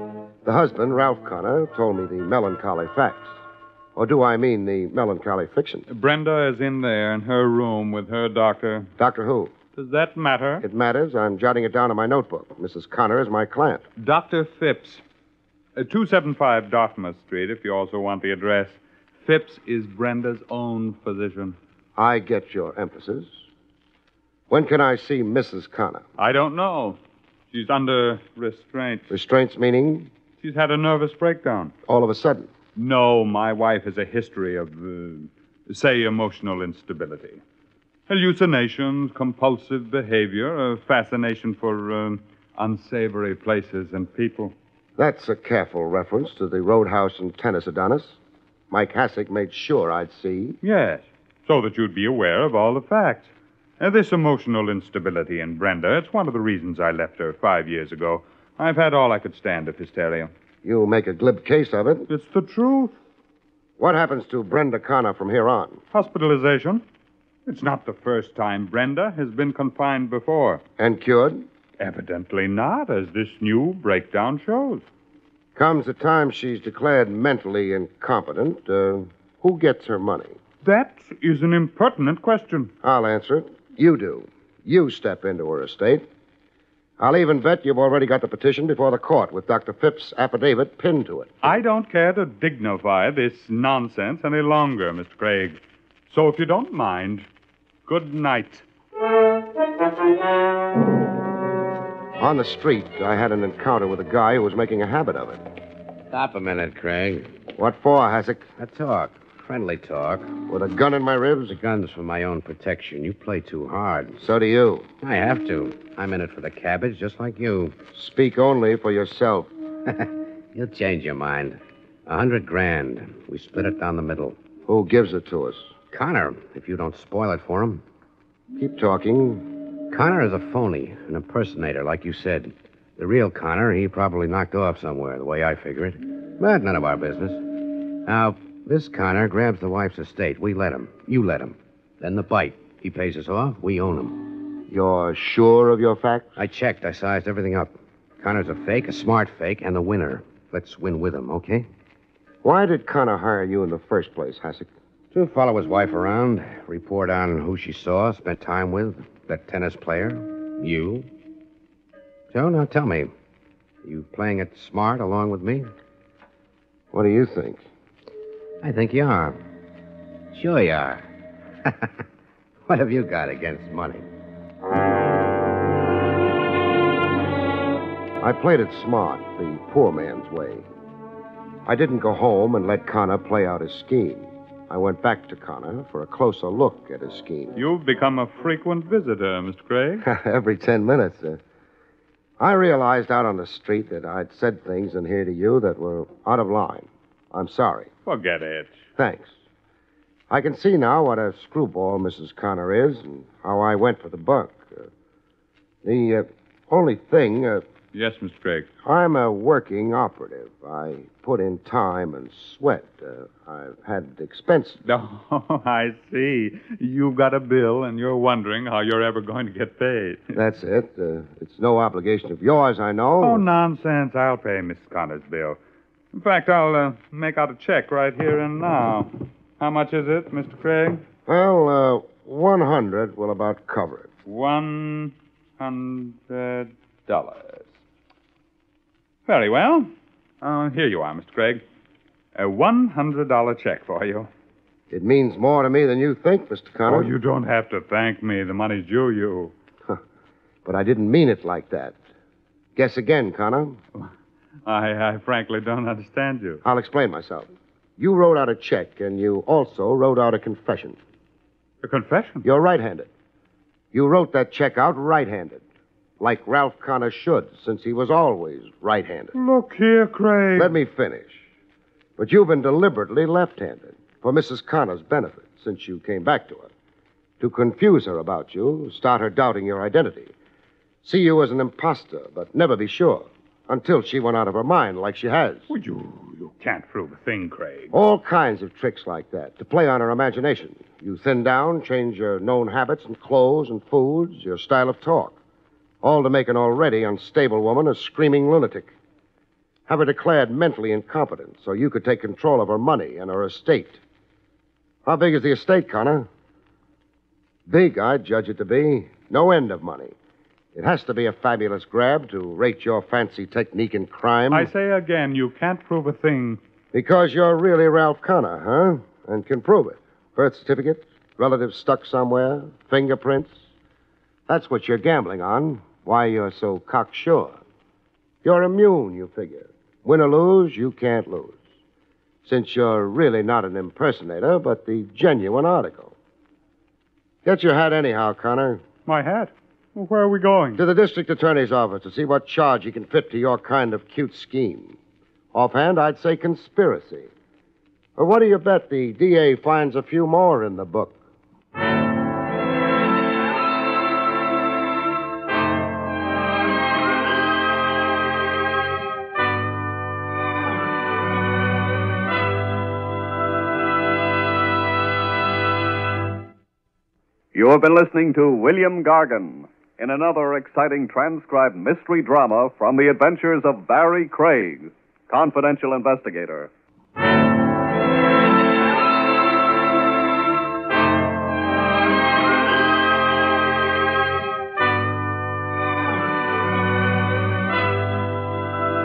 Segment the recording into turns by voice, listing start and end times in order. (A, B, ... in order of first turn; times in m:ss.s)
0:00.4-0:03.3 A
0:04.0-0:05.9 A
0:05.9-0:08.9 B
0:09.0-0:09.5 A
0:09.8-0:10.6 B
0:10.6-0:13.8 A
0:14.0-0:15.0 B
0:15.8-0:21.6 B
0:22.0-0:23.3 A
0:24.5-0:26.0 A
0:26.2-0:27.0 B
0:27.5-0:29.1 B
0:29.1-0:30.1 A
0:30.4-0:31.7 B
0:31.9-0:32.5 A
0:32.8-0:37.4 B
0:38.1-0:44.5 B
0:45.0-0:48.2 A
0:48.7-0:50.6 A
0:50.6-1:00.3 B
1:00.6-1:02.1 A
1:02.1-1:02.9 B
1:03.8-1:05.8 A
1:05.9-1:06.8 B
1:07.4-1:10.6 B
1:10.8-1:11.4 A
1:11.8-1:14.8 B
1:15.6-1:20.4 A
1:20.6-1:22.7 B
1:22.8-1:26.0 A
1:27.0-1:31.6 A
1:31.4-1:35.6 B
1:36.1-1:37.3 B
1:37.9-1:38.6 B
1:42.2-1:45.4 A
1:46.1-1:47.3 C
1:47.6-1:48.4 A
1:48.6-1:50.3 C
1:50.5-1:51.6 A
1:51.5-1:54.2 C
1:54.2-1:54.9 A
1:55.0-1:57.8 C
1:57.9-1:59.5 A
1:59.9-2:04.4 C
2:04.7-2:05.7 A
2:05.9-2:07.8 C
2:08.6-2:09.4 A
2:09.9-2:17.4 C
2:18.0-2:24.3 C
2:24.7-2:26.3 A
2:26.4-2:31.6 C
2:32.4-2:34.7 A
2:35.1-2:41.1 C
2:42.3-2:43.1 C
2:43.8-2:45.7 C
2:46.9-2:47.6 A
2:48.6-2:49.4 C
2:50.3-2:51.0 C
2:51.6-2:52.0 C
2:52.7-2:54.1 C
2:58.2-3:00.6 A
3:01.6-3:07.5 A
3:07.5-3:10.0 B
3:10.0-3:11.4 A
3:12.4-3:17.9 A
3:18.0-3:18.7 B
3:19.0-3:19.3 A
3:20.3-3:24.9 A
3:25.8-3:27.6 A
3:27.9-3:28.7 B
3:28.8-3:34.8 A
3:34.8-3:40.2 B
3:40.3-3:43.4 A
3:43.2-3:45.6 B
3:46.1-3:51.0 B
3:51.3-3:54.1 A
3:54.2-3:57.7 B
3:59.3-4:01.6 B
4:02.4-4:04.3 B
4:04.9-4:07.1 A
4:06.8-4:09.5 B
4:10.6-4:11.9 A
4:12.8-4:13.8 A
4:14.6-4:16.6 B
4:16.6-4:21.0 A
4:21.8-4:22.4 B
4:22.4-4:23.1 A
4:23.9-4:25.6 A
4:26.2-4:29.3 A
4:29.3-4:30.7 B
4:30.6-4:31.4 A
4:32.2-4:36.7 A
4:37.4-4:40.3 A
4:41.0-4:45.7 A
4:45.7-4:47.9 B
4:47.9-4:55.4 A
4:56.0-4:58.9 A
4:59.9-5:04.0 A
5:05.0-5:06.3 A
5:07.7-5:10.1 A
5:10.7-5:14.7 A
5:14.5-5:16.6 B
5:16.9-5:23.5 A
5:24.5-5:27.6 A
5:28.4-5:31.6 A
5:32.4-5:36.1 A
5:37.4-5:38.8 A
5:39.0-5:40.8 B
5:40.8-5:45.0 A
5:45.5-5:47.3 A
5:48.2-5:51.2 A
6:07.5-6:16.7 D